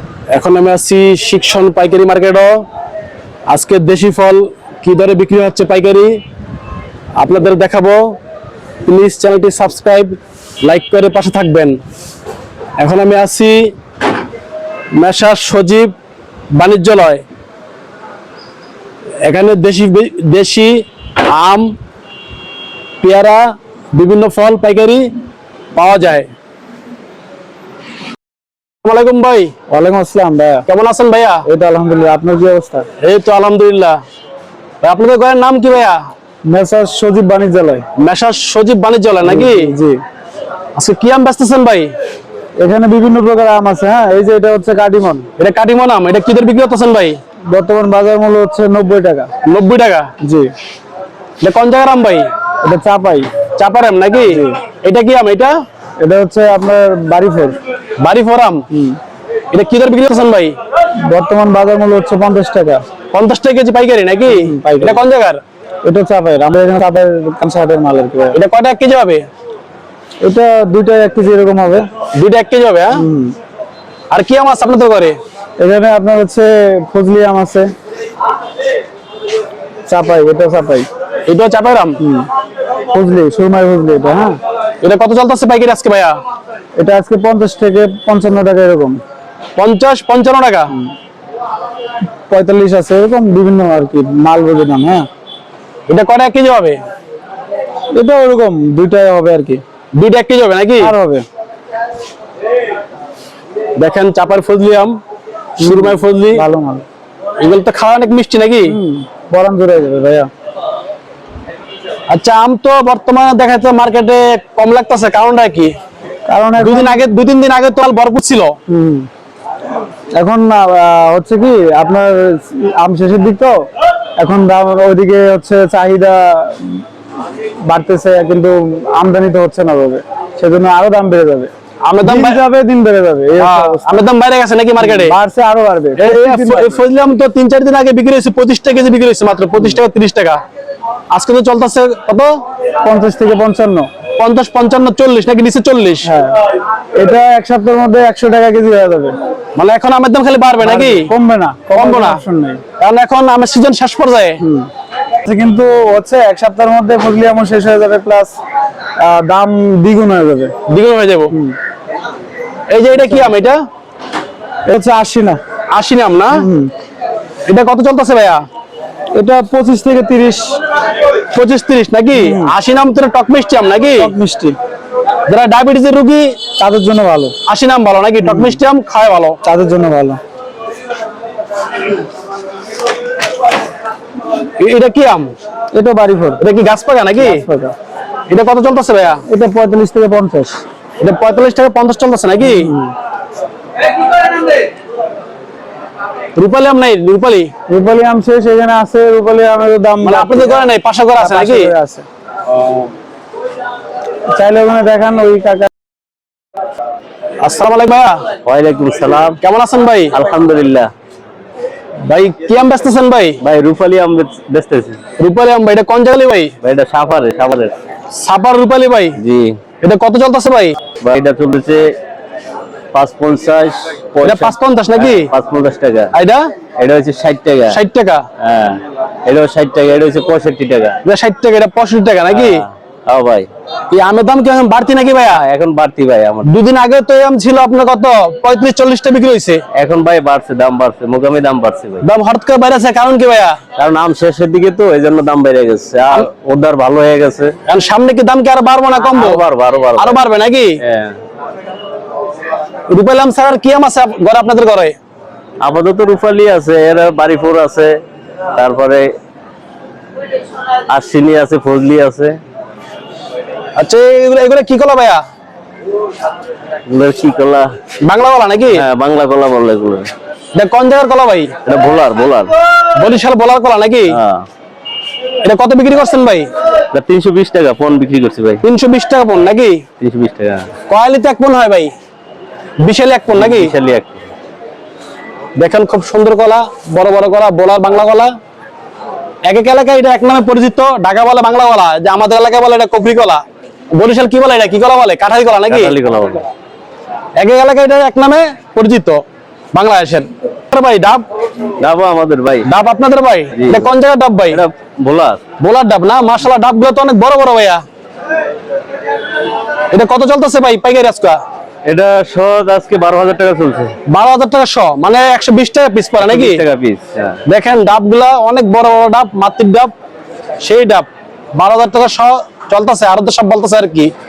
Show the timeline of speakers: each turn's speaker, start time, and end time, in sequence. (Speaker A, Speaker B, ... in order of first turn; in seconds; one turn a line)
Speaker A: 0.3-2.5
Speaker A: 3.5-6.2
Speaker A: 7.2-8.1
Speaker A: 8.8-11.8
Speaker A: 12.8-13.7
Speaker A: 14.9-15.9
Speaker A: 16.5-17.2
Speaker A: 19.2-21.7
Speaker A: 23.0-25.1
Speaker A: 25.7-26.3
Speaker A: 28.8-29.5
Speaker B: 29.7-30.6
Speaker A: 30.6-31.4
Speaker B: 31.5-32.9
Speaker A: 33.0-34.0
Speaker A: 34.8-36.0
Speaker B: 36.5-37.8
Speaker A: 38.0-39.7
Speaker B: 39.2-40.0
Speaker A: 40.8-41.9
Speaker B: 42.6-45.3
Speaker A: 45.4-47.2
Speaker B: 47.5-49.3
Speaker A: 49.4-50.1
Speaker B: 50.2-50.5
Speaker A: 51.4-52.2
Speaker B: 52.6-53.3
Speaker A: 53.5-55.5
Speaker B: 54.3-54.6
Speaker B: 56.0-57.6
Speaker A: 58.0-58.6
Speaker B: 58.7-59.0
Speaker A: 59.5-60.5
Speaker B: 61.0-62.8
Speaker A: 63.1-65.4
Speaker B: 64.3-65.0
Speaker B: 65.8-68.4
Speaker A: 68.3-69.2
Speaker B: 70.2-71.9
Speaker A: 72.1-73.0
Speaker B: 73.0-73.3
Speaker A: 74.1-75.2
Speaker B: 75.6-77.7
Speaker B: 79.9-80.9
Speaker A: 81.2-82.0
Speaker B: 82.0-82.3
Speaker B: 82.9-84.4
Speaker A: 84.8-86.2
Speaker B: 86.8-89.0
Speaker A: 89.5-90.7
Speaker B: 92.3-95.1
Speaker A: 95.9-96.8
Speaker B: 97.9-99.6
Speaker A: 99.9-100.9
Speaker B: 100.8-101.2
Speaker A: 103.8-105.0
Speaker A: 105.6-106.4
Speaker B: 105.6-106.8
Speaker A: 107.4-108.8
Speaker B: 108.7-110.3
Speaker A: 112.1-115.7
Speaker B: 116.3-117.0
Speaker A: 116.6-118.5
Speaker B: 118.7-119.1
Speaker B: 120.2-123.6
Speaker B: 124.2-126.8
Speaker B: 127.7-131.5
Speaker A: 131.8-132.4
Speaker B: 132.0-134.1
Speaker A: 133.4-135.1
Speaker B: 134.8-136.8
Speaker A: 136.0-140.4
Speaker A: 141.1-142.3
Speaker B: 142.8-143.9
Speaker A: 144.2-146.1
Speaker B: 146.0-146.4
Speaker B: 146.9-149.2
Speaker A: 149.6-151.1
Speaker B: 150.6-152.6
Speaker A: 151.7-152.2
Speaker A: 152.8-154.4
Speaker B: 154.4-154.7
Speaker B: 155.2-158.3
Speaker B: 159.0-160.5
Speaker A: 160.7-161.3
Speaker A: 162.7-163.6
Speaker B: 162.9-163.3
Speaker B: 164.7-165.4
Speaker A: 165.7-166.4
Speaker B: 166.4-166.7
Speaker A: 167.5-168.4
Speaker B: 169.1-170.6
Speaker A: 171.3-174.1
Speaker B: 172.1-172.5
Speaker B: 174.0-174.6
Speaker A: 175.3-176.3
Speaker B: 176.6-177.3
Speaker A: 177.5-179.4
Speaker B: 178.2-178.6
Speaker B: 179.4-180.2
Speaker A: 184.6-185.3
Speaker B: 185.7-186.4
Speaker A: 186.4-187.4
Speaker B: 187.2-187.7
Speaker A: 188.3-189.2
Speaker B: 189.3-190.6
Speaker A: 191.0-192.7
Speaker B: 192.4-192.9
Speaker A: 196.3-197.5
Speaker B: 197.7-202.0
Speaker A: 200.0-201.7
Speaker B: 204.3-205.7
Speaker A: 207.4-208.2
Speaker C: 208.4-209.4
Speaker A: 209.4-210.2
Speaker C: 210.1-210.9
Speaker A: 212.1-213.4
Speaker C: 213.4-215.0
Speaker A: 215.2-216.5
Speaker C: 216.6-217.7
Speaker A: 218.1-219.2
Speaker C: 219.2-219.6
Speaker A: 219.8-220.8
Speaker C: 221.0-221.9
Speaker C: 222.9-226.1
Speaker A: 224.2-225.3
Speaker A: 226.1-226.5
Speaker C: 226.8-227.8
Speaker A: 227.7-228.2
Speaker C: 228.4-231.0
Speaker A: 231.0-232.7
Speaker C: 232.3-233.5
Speaker A: 233.9-235.4
Speaker C: 235.3-236.5
Speaker A: 236.4-239.6
Speaker C: 239.7-242.0
Speaker A: 242.0-243.6
Speaker C: 243.8-247.5
Speaker A: 247.7-249.4
Speaker C: 249.0-250.2
Speaker A: 250.0-250.8
Speaker C: 250.8-251.2
Speaker A: 252.9-254.9
Speaker C: 255.6-258.0
Speaker C: 258.5-259.1
Speaker C: 260.9-262.4
Speaker A: 263.8-265.2
Speaker C: 266.9-267.7
Speaker A: 268.0-268.8
Speaker C: 268.7-270.1
Speaker A: 270.5-271.5
Speaker C: 271.6-272.5
Speaker A: 272.9-274.2
Speaker C: 274.1-274.4
Speaker A: 275.4-276.5
Speaker C: 276.9-278.6
Speaker A: 278.6-279.8
Speaker C: 280.0-280.7
Speaker A: 280.9-281.9
Speaker A: 282.8-283.7
Speaker C: 283.3-284.2
Speaker A: 285.6-288.3
Speaker A: 289.4-293.4
Speaker A: 293.9-295.9
Speaker C: 295.7-296.5
Speaker A: 297.4-301.2
Speaker C: 301.8-302.7
Speaker A: 302.6-304.6
Speaker C: 303.5-303.9
Speaker C: 304.5-305.4
Speaker A: 305.6-307.8
Speaker A: 309.9-311.4
Speaker C: 311.8-313.9
Speaker A: 314.1-316.6
Speaker C: 316.2-317.4
Speaker A: 317.4-319.9
Speaker A: 320.6-324.1